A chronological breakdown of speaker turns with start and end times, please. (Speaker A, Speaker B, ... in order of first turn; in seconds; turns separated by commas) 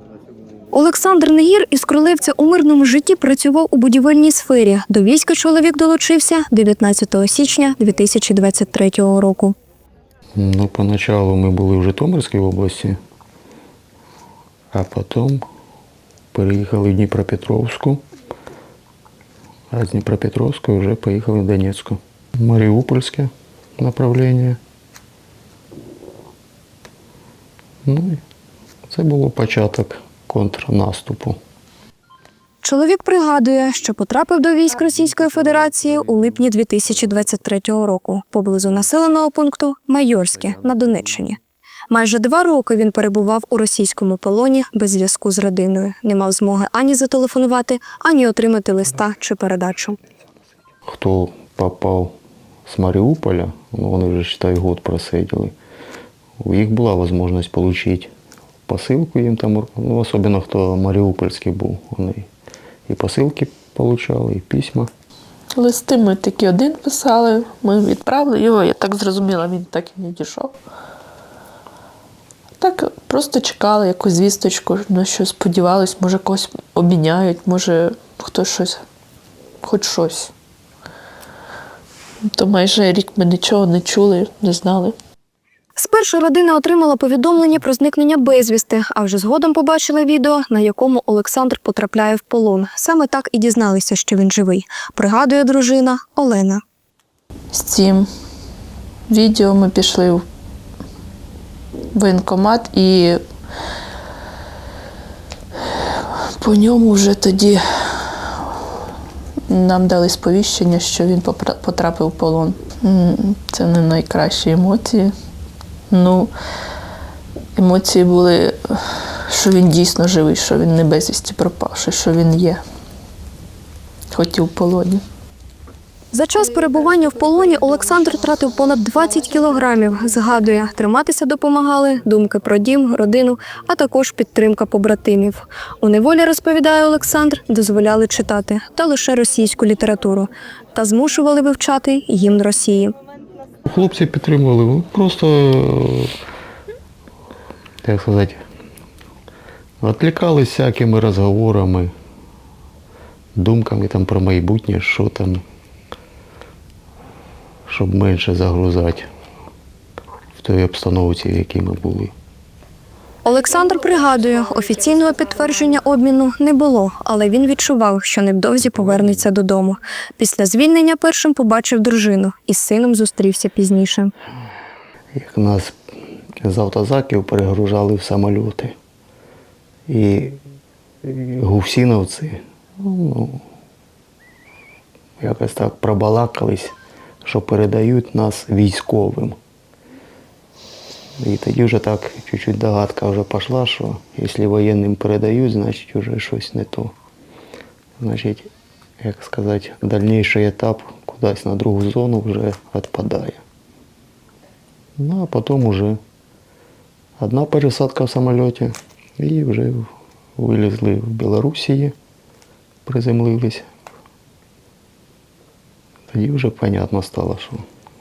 Speaker A: 0.7-9.6, Speaker B: 10.4-13.0, Speaker B: 14.7-15.4, Speaker B: 16.3-18.0, Speaker B: 19.7-24.6, Speaker B: 27.9-28.2, Speaker B: 28.9-31.4, Speaker A: 32.6-41.4, Speaker A: 41.9-50.0, Speaker B: 50.9-52.1, Speaker B: 52.7-55.5, Speaker B: 56.4-58.1, Speaker B: 58.7-62.3, Speaker B: 62.9-64.9, Speaker C: 65.6-70.6, Speaker C: 72.6-78.8, Speaker C: 79.6-80.3, Speaker C: 82.3-84.9, Speaker A: 85.8-96.6, Speaker C: 97.5-98.1, Speaker C: 99.1-100.2, Speaker C: 102.0-103.2, Speaker C: 105.7-108.5, Speaker C: 109.5-115.1, Speaker C: 115.9-116.3, Speaker C: 117.6-122.6, Speaker C: 124.1-125.0, Speaker A: 126.1-142.9, Speaker B: 143.7-146.1, Speaker B: 147.8-148.4, Speaker B: 149.8-151.9, Speaker B: 153.4-155.4, Speaker B: 157.7-159.1, Speaker B: 160.3-162.1, Speaker A: 163.2-174.1, Speaker B: 168.6-169.3, Speaker B: 175.2-175.7, Speaker B: 176.4-178.8, Speaker B: 179.9-180.4, Speaker B: 181.0-183.4, Speaker B: 185.2-189.4, Speaker B: 191.2-196.9, Speaker B: 198.0-203.4, Speaker B: 205.0-206.0, Speaker B: 207.2-211.9, Speaker B: 212.8-213.7, Speaker B: 216.1-217.6